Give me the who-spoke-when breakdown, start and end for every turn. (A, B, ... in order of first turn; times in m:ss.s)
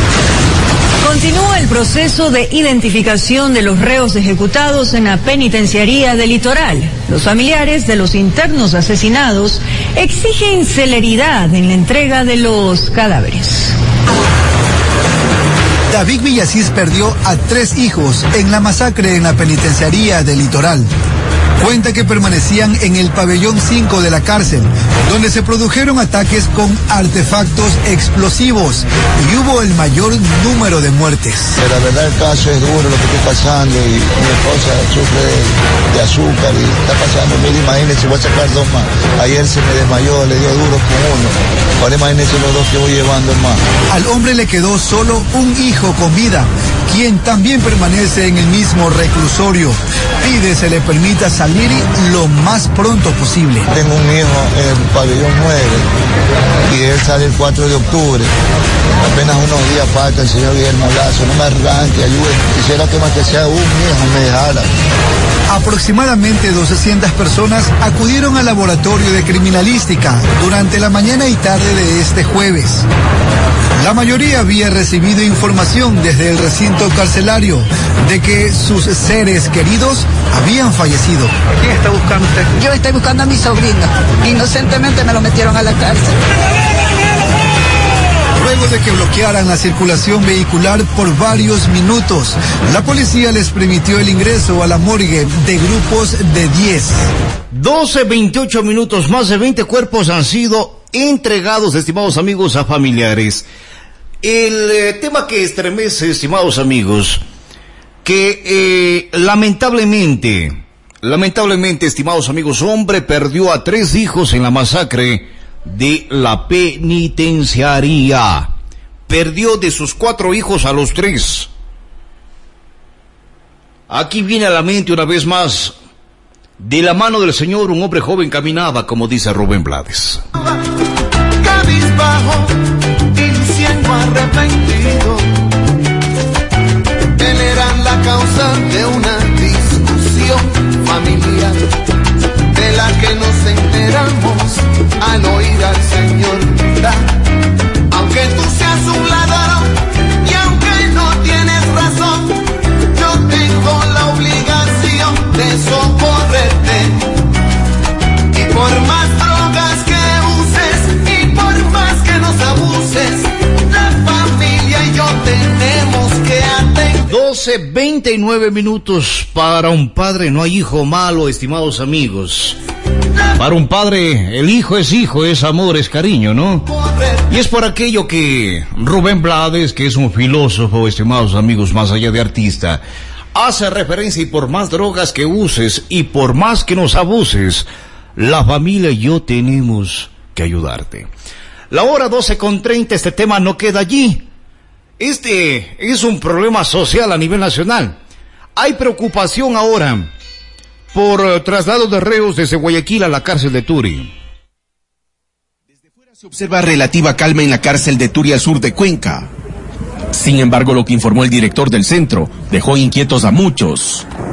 0:01.0-0:13.7 A
0:15.9-0:20.9 B
0:21.6-0:31.6 B
0:31.6-0:43.6 C
0:43.9-0:53.7 B
0:53.7-0:55.8 C
0:56.7-0:58.3 C
0:59.0-1:04.7 C
1:05.5-1:12.8 B
1:13.8-1:21.3 B
1:22.5-1:26.1 D
1:28.4-1:37.1 B
1:37.5-1:43.5 E
1:44.2-1:47.2 E
1:48.0-1:58.5 E
1:59.1-2:01.5 E
2:03.9-2:05.8 E
2:06.6-2:10.2 E
2:11.4-2:12.6 F
2:13.1-2:15.2 F
2:17.2-2:21.7 F
2:22.5-2:27.1 F
2:27.9-2:32.4 F
2:32.9-2:37.1 F
2:38.3-2:47.1 F
2:47.1-2:52.6 E
2:53.4-2:56.7 E
2:56.7-2:57.2 F
2:57.3-3:02.8 E
3:03.3-3:11.1 E
3:11.7-3:14.3 E
3:15.0-3:18.0 E
3:18.6-3:20.1 E
3:20.9-3:24.1 E
3:26.4-3:29.3 G
3:30.2-3:34.0 G